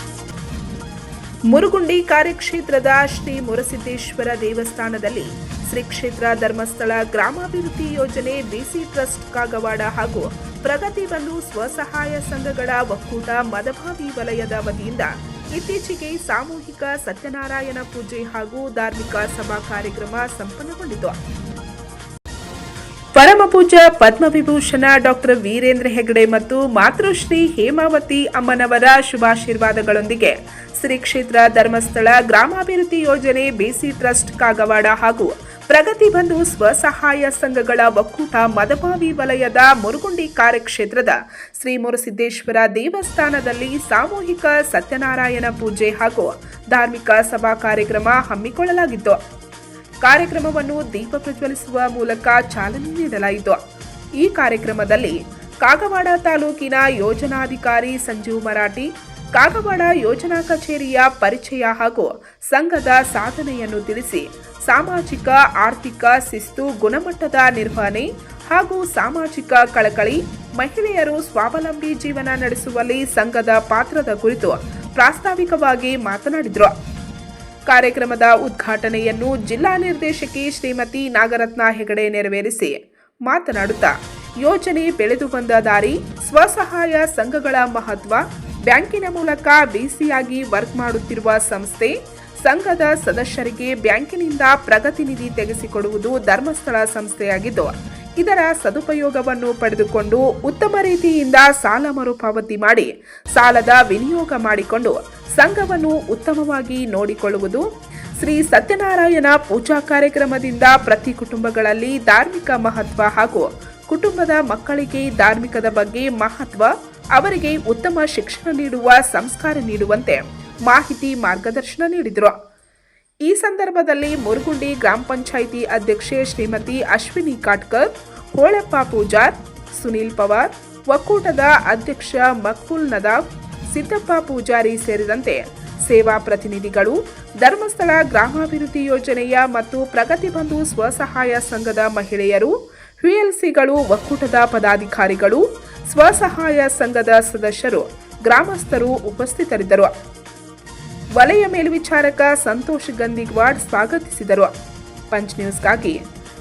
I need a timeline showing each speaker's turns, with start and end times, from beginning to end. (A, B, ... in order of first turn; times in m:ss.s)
0:01.5-0:21.1 A
0:23.1-0:49.2 A
0:50.0-0:53.6 A
0:54.2-1:16.7 A
1:17.7-1:47.6 A
1:48.2-2:02.3 A
2:03.2-2:29.9 A
2:31.2-2:34.5 A
2:35.1-2:36.0 A